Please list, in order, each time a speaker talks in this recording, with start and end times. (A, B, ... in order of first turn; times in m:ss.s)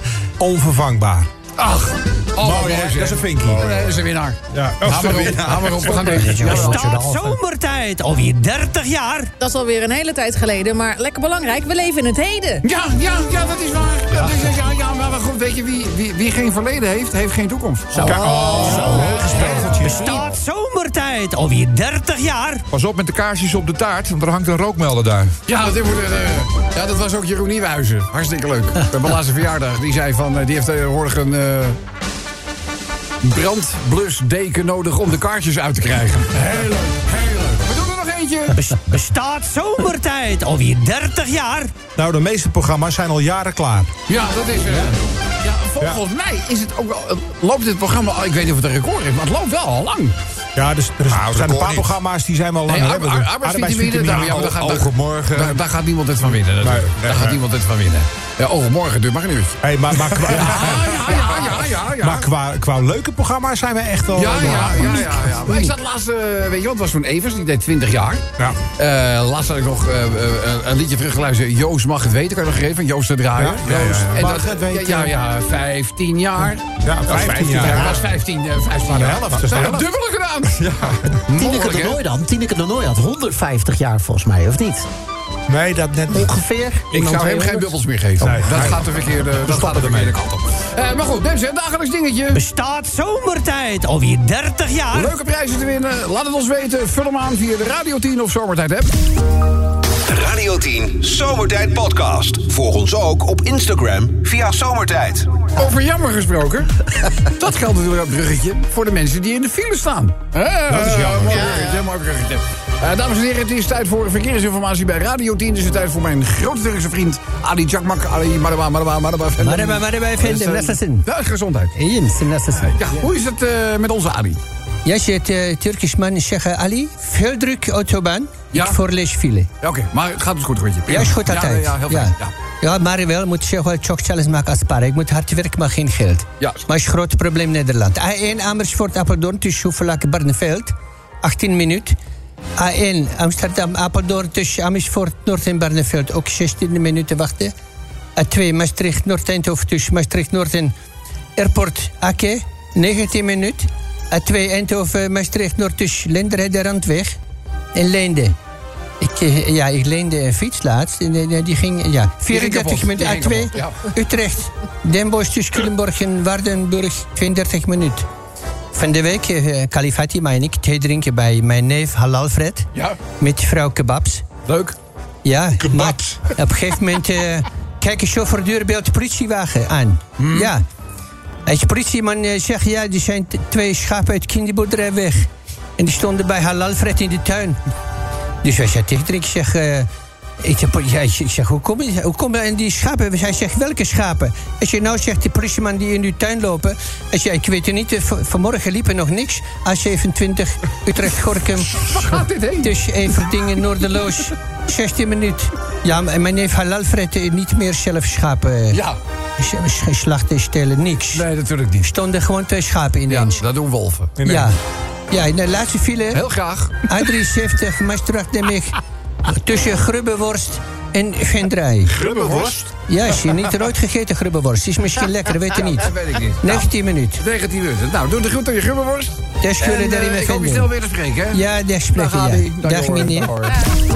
0:00.4-0:01.3 A
0:01.6-0:06.9 B
0:02.4-0:03.9 A
0:04.5-0:06.1 A
0:06.0-0:07.4 C
0:06.2-0:09.3 D
0:09.4-0:12.6 E
0:12.6-0:19.7 B
0:17.9-0:20.3 A
0:18.2-0:19.3 E
0:19.4-0:22.6 D
0:22.7-0:25.3 F
0:25.5-0:31.8 B
0:33.2-0:38.6 B
0:38.5-0:41.7 D
0:42.0-0:43.9 A
0:44.1-0:50.2 B
0:50.6-0:54.5 A
0:51.1-0:51.9 F
0:52.7-1:02.3 B
0:54.2-0:55.6 F
0:56.6-0:57.4 A
0:59.6-1:05.2 A
1:04.1-1:20.7 B
1:05.0-1:05.7 C
1:13.4-1:15.1 A
1:16.8-1:18.0 A
1:17.2-1:17.7 F
1:18.8-1:19.8 A
1:20.7-1:21.0 F
1:21.3-1:24.9 G
1:21.3-1:21.9 B
1:25.5-1:26.4 A
1:26.1-1:27.7 C
1:26.9-1:32.4 B
1:28.2-1:30.1 A
1:32.3-1:35.1 D
1:34.9-1:38.9 B
1:40.0-1:45.5 H
1:45.5-2:01.7 B
1:50.7-1:51.5 A
1:51.3-1:51.8 E
1:59.4-2:01.1 C
2:01.7-2:02.8 C
2:02.6-2:04.4 B
2:04.8-2:09.5 C
2:08.5-2:08.8 B
2:09.6-2:12.3 B
2:10.9-2:22.0 C
2:22.6-2:27.5 C
2:28.2-2:30.7 C
2:31.4-2:37.2 C
2:37.7-2:38.3 C
2:39.0-2:48.1 C
2:42.3-2:43.8 B
2:48.7-2:54.2 C
2:54.4-2:54.7 B
2:55.2-3:00.6 C
3:00.2-3:00.5 B
3:01.4-3:07.6 C
3:08.4-3:09.9 C
3:10.4-3:28.8 C
3:21.8-3:22.8 B
3:28.7-3:29.0 B
3:29.4-3:31.3 C
3:31.1-3:31.9 B
3:31.8-3:33.4 C
3:33.1-3:34.2 B
3:34.2-3:34.5 A
3:34.2-3:34.6 C
3:35.1-3:36.2 C
3:36.1-3:36.9 B
3:36.9-3:42.0 C
3:41.9-3:42.7 B
3:42.0-3:42.6 A
3:42.8-3:47.2 C
3:45.5-3:53.6 B
3:49.4-3:50.7 C
3:51.3-3:53.4 C